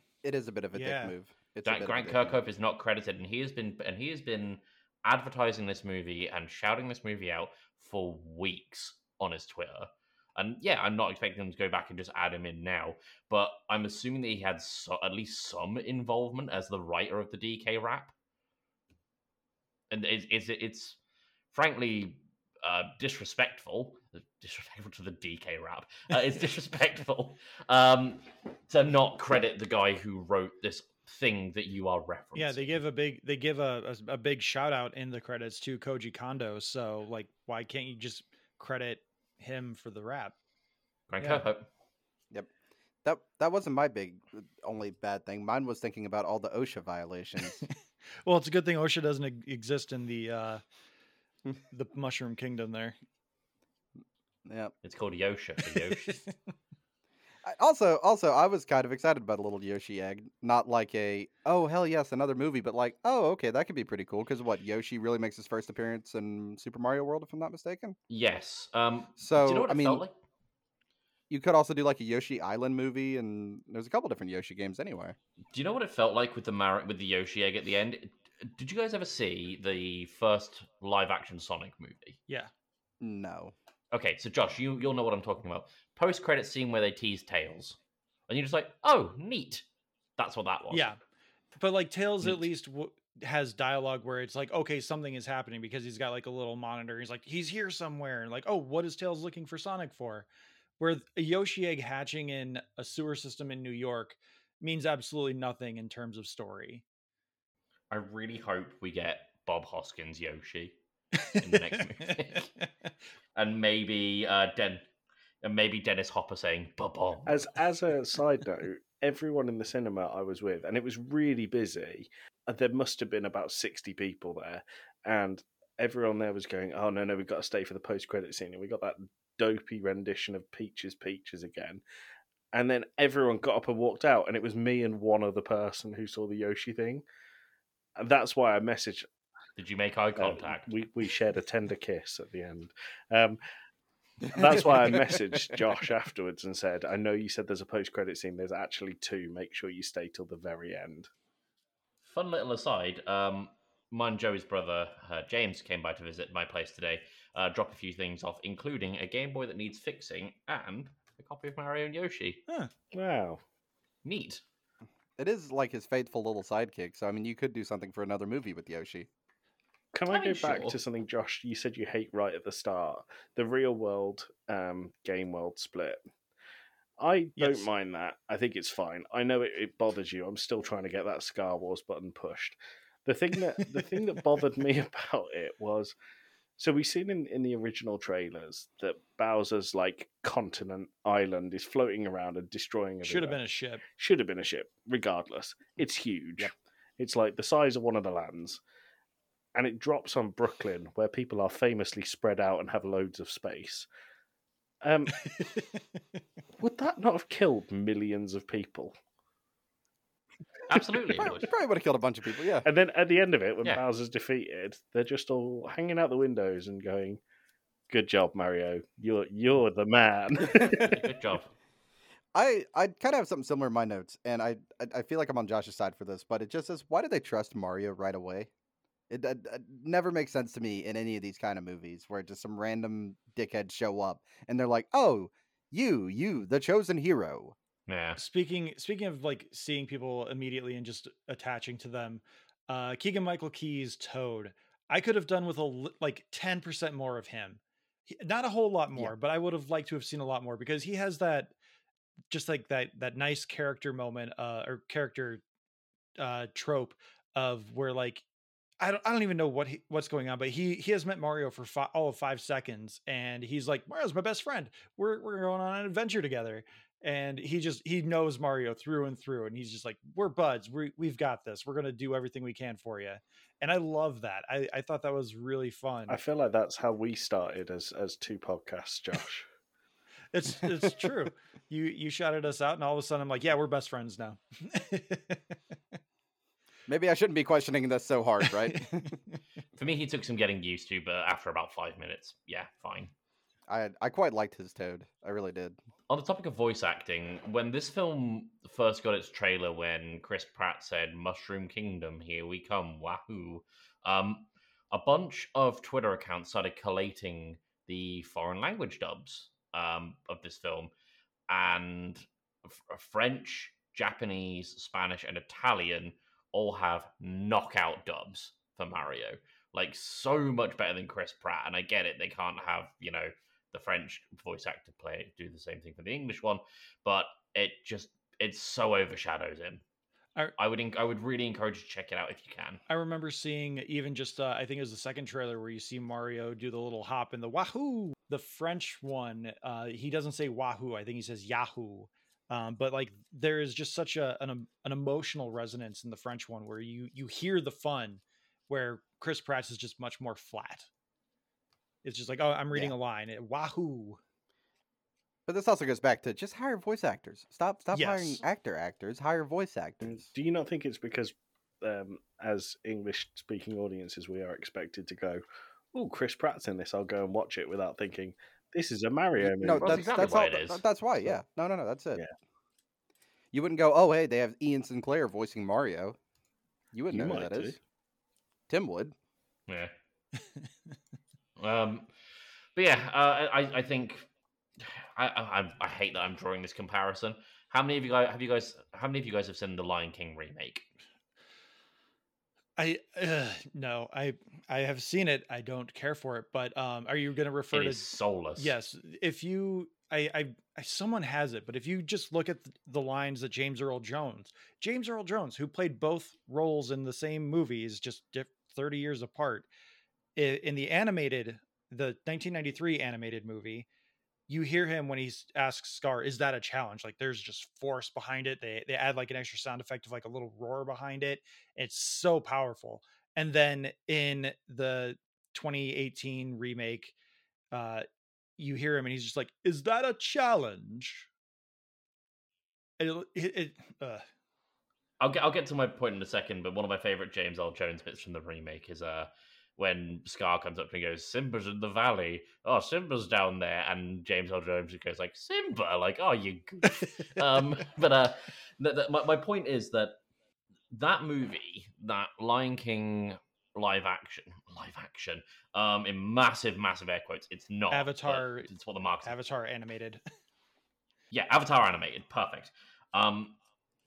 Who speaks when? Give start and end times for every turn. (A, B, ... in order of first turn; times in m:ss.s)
0:00.2-0:02.4 A
0:00.7-0:01.1 B
0:01.6-0:18.1 C
0:19.9-0:21.0 C
0:21.5-0:32.7 C
0:32.4-0:40.4 B
0:41.1-0:41.7 C
0:43.0-0:47.6 A
0:48.2-0:50.6 B
0:51.7-0:53.0 B
0:54.4-0:54.7 A
0:54.8-0:56.2 C
0:57.4-1:08.0 A
1:08.1-1:10.1 C
1:09.2-1:10.0 A
1:11.3-1:15.2 A
1:15.5-1:22.2 C
1:23.0-1:23.5 A
1:23.9-1:27.8 C
1:28.3-1:29.6 C
1:30.2-1:30.9 C
1:30.7-1:31.0 B
1:31.6-1:40.3 B
1:40.8-1:46.8 B
1:47.9-1:50.8 C
1:51.2-1:52.7 B
1:51.4-1:52.5 C
1:53.3-1:54.8 C
1:55.4-1:57.4 C
1:57.2-2:11.8 D
2:12.5-2:17.0 D
2:18.0-2:19.1 D
2:19.6-2:20.7 C
2:20.2-2:23.4 D
2:24.3-2:31.1 D
2:32.0-2:42.4 C
2:42.9-2:43.4 D
2:44.0-2:44.4 C
2:45.2-2:49.1 A
2:49.9-2:56.0 D
2:50.1-2:50.8 C
2:57.0-3:05.9 D
2:57.4-2:57.7 B
3:06.6-3:13.4 D
3:13.0-3:13.8 B
3:13.9-3:18.6 D
3:19.5-3:23.9 D
3:24.8-3:25.3 D
3:25.2-3:25.8 B
3:26.6-3:29.0 D
3:30.7-3:31.5 C
3:31.2-3:32.6 A
3:32.6-3:37.2 D
3:37.9-3:41.1 D
3:40.6-3:41.5 C
3:42.3-3:48.5 A
3:49.1-3:57.6 A
3:57.9-3:58.2 C
3:58.2-4:11.5 B
4:12.3-4:15.4 B
4:16.2-4:18.2 B
4:18.8-4:36.2 B
4:36.1-4:39.4 D
4:40.3-4:45.4 B
4:46.9-4:49.2 A
4:48.4-4:49.1 B
4:49.8-4:53.1 C
4:53.7-4:55.8 A
4:56.1-5:10.9 C
5:11.5-5:29.8 C
5:30.6-5:32.8 C
5:32.9-5:50.9 B
5:52.0-5:54.2 B
5:55.5-6:00.3 A
5:57.9-5:58.4 B
6:00.0-6:05.4 D
6:05.9-6:10.3 D
6:09.4-6:12.2 A
6:09.7-6:10.8 C
6:13.5-6:16.2 A
6:16.9-6:17.8 A
6:17.1-6:17.8 D
6:18.7-6:19.1 A
6:21.6-6:22.1 C
6:22.7-6:24.3 C
6:24.8-6:30.9 C
6:32.8-6:38.0 B
6:37.7-6:38.7 C
6:38.6-6:49.7 B
6:50.4-6:53.9 B
6:54.5-7:07.1 B
7:07.7-7:08.0 B
7:08.6-7:11.3 B
7:13.0-7:14.2 B
7:15.2-7:30.2 C
7:30.9-7:39.4 C
7:37.9-7:38.7 B
7:39.2-7:40.2 B
7:41.3-7:43.6 C